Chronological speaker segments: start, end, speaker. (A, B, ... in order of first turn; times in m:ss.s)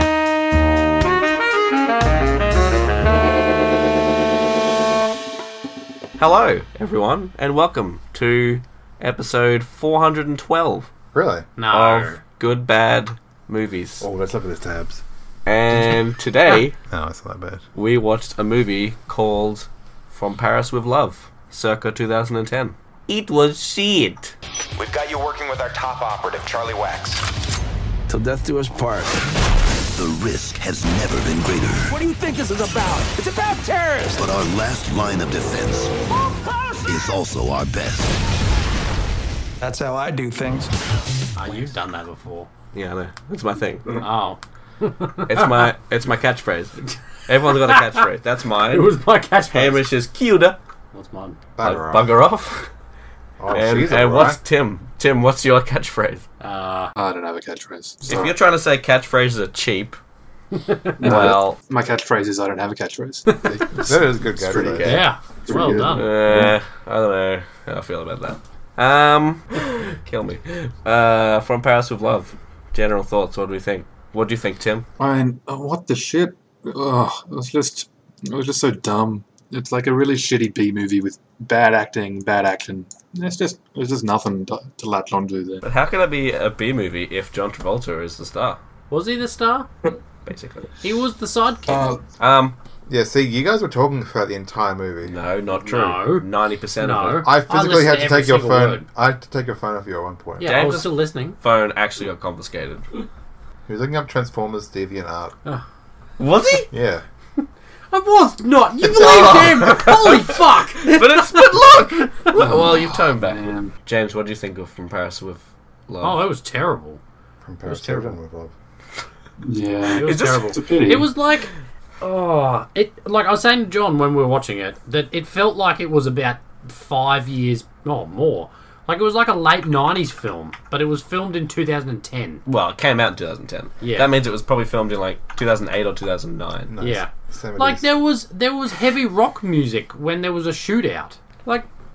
0:06.2-0:10.9 A
0:11.1-0:11.5 B
0:11.6-0:12.2 C
0:11.7-0:14.1 A
0:14.0-0:15.0 B
0:15.5-0:16.8 A
0:16.9-0:17.6 B
0:17.8-0:24.4 A
0:24.8-0:27.3 D
0:28.1-0:29.2 A
0:29.8-0:32.0 E
0:31.9-0:34.3 F
0:34.1-0:36.0 E
0:36.1-0:36.9 F
0:36.8-0:38.2 E
0:39.6-0:40.7 F
0:41.4-0:42.5 C
0:42.7-0:44.0 A
0:44.0-0:45.7 C
0:45.3-0:48.9 A
0:47.5-0:48.0 C
0:48.7-0:49.8 C
0:49.5-0:50.6 A
0:50.9-0:51.4 C
0:51.6-0:52.1 B
0:51.6-0:52.7 A
0:53.4-0:54.4 B
0:53.5-0:56.2 A
0:56.4-0:56.9 C
0:57.0-0:58.4 G
0:58.1-1:00.0 A
1:00.5-1:01.0 C
1:01.0-1:03.8 G
1:01.0-1:01.6 A
1:03.3-1:03.8 C
1:03.4-1:05.1 B
1:04.4-1:06.6 G
1:04.6-1:04.8 A
1:04.8-1:06.1 C
1:05.8-1:14.9 A
1:15.0-1:25.6 G
1:25.6-1:28.6 A
1:28.9-1:29.7 C
1:30.3-1:30.7 A
1:30.8-1:31.9 C
1:31.7-1:32.0 G
1:32.2-1:32.6 A
1:32.9-1:35.2 B
1:35.0-1:37.3 A
1:35.6-1:36.3 C
1:36.8-1:38.8 C
1:37.2-1:40.7 B
1:40.4-1:41.4 C
1:40.4-1:43.0 A
1:43.7-1:45.4 B
1:46.2-1:46.7 A
1:46.7-1:47.0 B
1:47.9-1:52.4 C
1:48.9-1:56.2 A
1:52.3-1:53.7 G
1:56.0-1:57.0 C
1:57.4-1:58.6 B
1:57.7-1:58.2 C
1:59.4-2:01.1 G
1:59.9-2:12.4 C
2:00.0-2:00.6 A
2:12.5-2:16.7 A
2:13.8-2:14.1 C
2:16.7-2:17.8 B
2:16.8-2:21.7 C